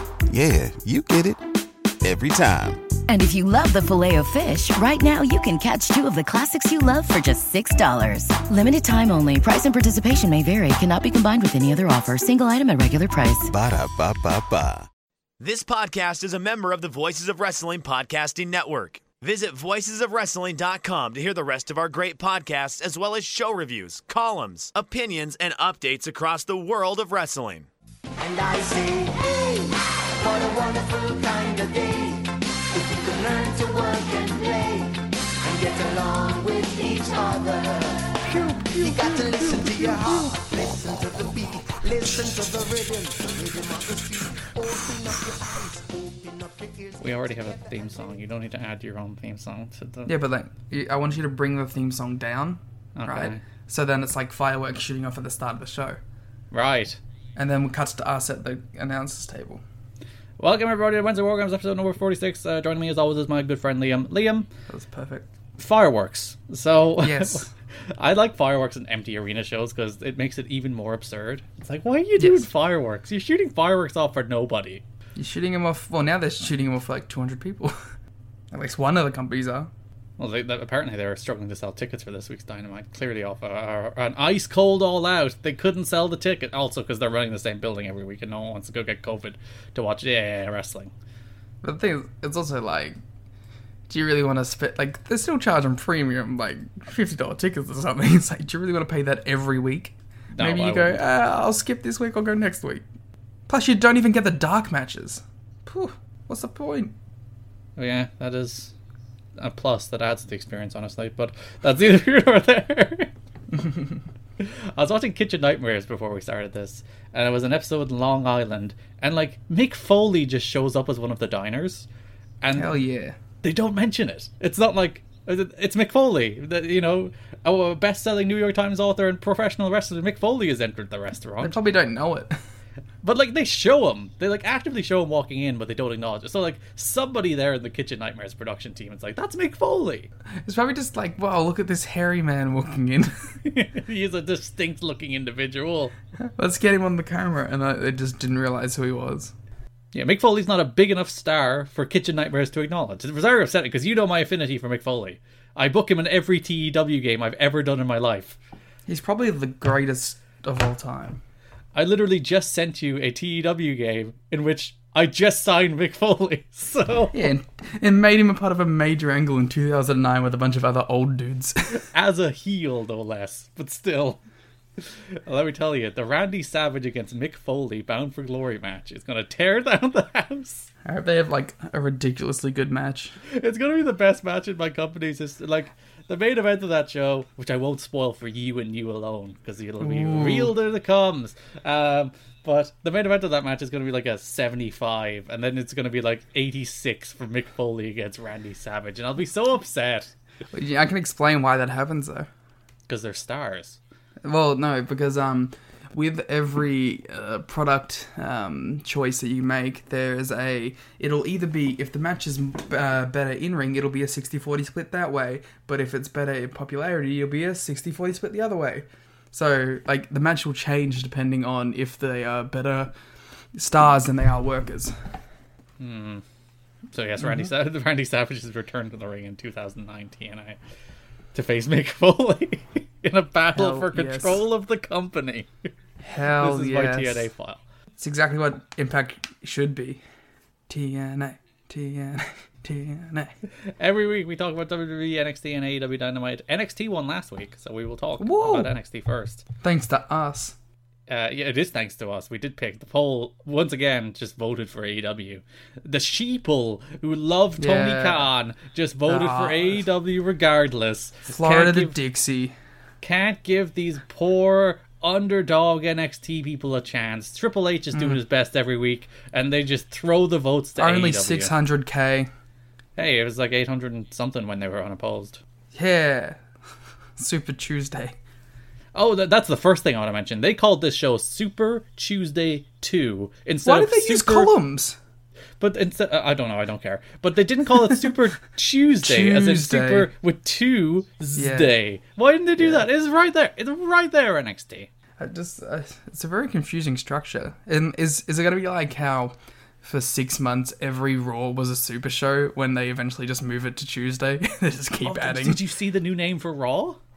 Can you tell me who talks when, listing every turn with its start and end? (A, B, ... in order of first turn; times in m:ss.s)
0:00.3-0:01.4 A
0:02.0-0:02.8 A
0:03.1-0:13.5 B
0:13.5-0:14.9 A
0:15.4-0:27.7 C
0:28.2-0:47.7 D
0:38.3-0:40.4 E
0:47.0-0:50.2 F
0:50.1-0:56.0 E
0:53.0-0:53.4 F
0:56.5-0:57.0 F
0:57.3-0:59.6 E
1:00.4-1:04.5 F
1:04.7-1:05.3 E
1:05.6-1:14.8 F
1:07.0-1:07.5 E
1:12.2-1:12.5 E
1:15.2-1:17.7 E
1:18.5-1:19.7 E
1:20.2-1:30.9 F
1:31.6-1:33.0 E
1:33.9-1:42.8 E
1:40.3-1:41.0 F
1:43.5-1:46.9 E
1:47.8-1:48.7 F
1:49.4-1:53.1 F
1:53.5-1:54.0 E
1:54.4-2:01.9 F
2:02.4-2:02.7 F
2:02.5-2:03.2 E
2:03.4-2:11.6 F
2:11.4-2:12.4 E
2:13.0-2:20.1 F
2:20.4-2:23.1 E
2:23.4-2:25.9 F
2:26.2-2:29.3 E
2:29.9-2:38.4 F
2:38.9-2:41.2 E
2:41.7-2:47.3 F
2:47.1-2:51.8 E
2:51.7-2:54.2 F
2:54.8-3:00.7 F
3:00.8-3:03.2 E
3:03.2-3:20.1 F
3:09.8-3:10.5 E
3:20.5-3:22.3 E
3:22.9-3:23.8 F
3:24.2-3:42.9 E
3:43.5-3:44.9 E
3:45.8-3:46.2 F
3:46.9-3:50.6 F
3:47.2-3:47.5 E
3:51.3-3:55.7 F
3:53.5-3:54.4 E
3:56.0-3:57.3 E
3:56.4-3:57.6 F
3:58.0-4:00.0 E
4:00.7-4:03.3 E
4:03.8-4:09.4 F
4:08.2-4:08.8 E
4:09.6-4:10.6 E
4:11.1-4:22.0 F
4:17.6-4:18.3 E
4:19.1-4:19.8 E
4:21.3-4:22.6 E
4:23.0-4:31.5 F
4:27.9-4:28.2 E
4:30.8-4:32.3 E
4:33.0-4:35.4 F
4:35.7-4:36.4 E
4:37.2-4:38.1 E
4:38.9-4:44.5 F
4:43.6-4:45.0 E
4:45.6-4:54.9 F
4:49.0-4:50.1 E
4:51.3-4:51.8 E
4:52.6-4:52.9 E
4:55.2-5:05.6 E
5:05.0-5:07.0 F